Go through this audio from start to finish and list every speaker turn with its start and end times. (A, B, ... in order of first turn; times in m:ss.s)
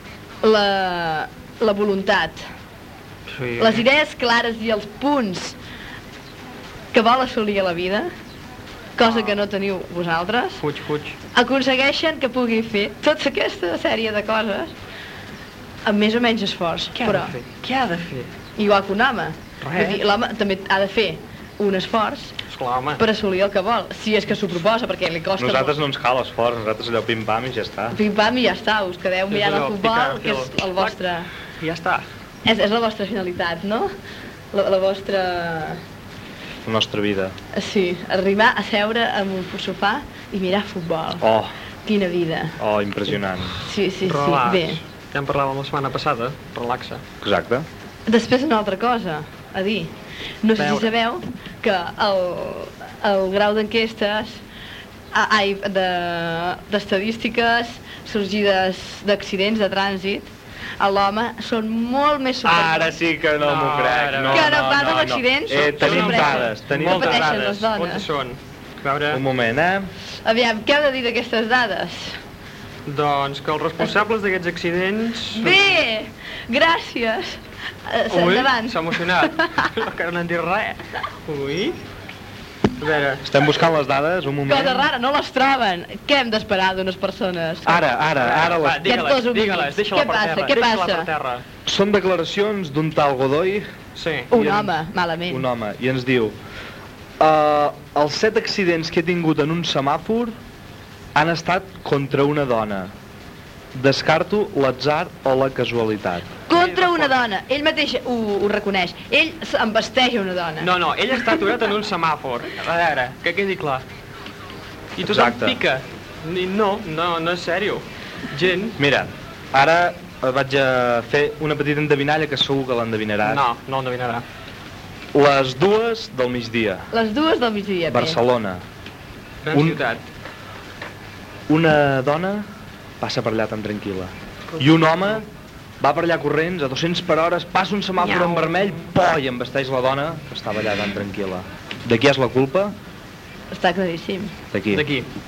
0:00.4-0:02.4 A
0:03.3-0:03.8 B
0:03.6-0:05.6 A
0:06.9-0:08.1 A
0:09.0-0:10.6 A
0:09.0-0:09.4 B
0:10.6-0:11.2 B
0:11.3-0:14.7 A
0:15.8-0:17.3 A
0:17.0-0:18.3 B
0:18.6-0:22.4 A
0:19.6-0:20.0 B
0:22.5-0:23.0 B
0:23.0-0:25.7 A
0:25.4-0:28.0 C
0:27.9-0:31.3 A
0:29.3-0:30.9 B
0:31.6-0:32.0 B
0:32.4-0:33.9 A
0:34.5-0:35.8 A
0:36.6-0:37.3 C
0:37.5-0:41.2 A
0:41.2-0:41.5 C
0:41.8-0:42.6 A
0:42.6-0:43.6 C
0:43.6-0:44.8 A
0:44.0-0:47.0 B
0:47.2-0:47.6 C
0:48.1-0:54.4 A
0:50.6-0:50.9 B
0:55.1-1:02.9 A
1:02.4-1:07.3 C
1:03.4-1:04.7 B
1:04.3-1:08.0 A
1:05.8-1:09.2 B
1:09.1-1:09.9 C
1:10.2-1:12.2 A
1:12.8-1:15.6 B
1:15.3-1:19.6 A
1:18.1-1:21.8 B
1:22.8-1:23.2 B
1:23.2-1:24.9 C
1:24.4-1:27.8 A
1:27.6-1:28.9 C
1:28.2-1:31.4 B
1:28.8-1:31.1 A
1:31.6-1:33.7 C
1:33.9-1:34.3 B
1:34.3-1:35.4 A
1:34.3-1:34.7 C
1:35.3-1:36.4 C
1:37.2-1:40.4 C
1:41.1-1:42.9 C
1:43.7-1:46.3 C
1:46.5-1:50.7 A
1:46.5-1:47.1 B
1:50.6-1:53.8 B
1:55.0-1:58.8 B
1:55.1-1:55.6 C
1:58.8-2:03.4 C
2:03.2-2:04.2 B
2:05.1-2:06.9 C
2:06.9-2:08.2 A
2:07.9-2:08.6 C
2:09.4-2:10.0 B
2:09.5-2:09.8 C
2:11.5-2:12.5 C
2:13.0-2:15.2 C
2:14.5-2:15.1 B
2:15.8-2:22.7 C
2:18.0-2:18.8 B
2:23.5-2:24.4 A
2:24.5-2:24.8 C
2:24.7-2:25.1 B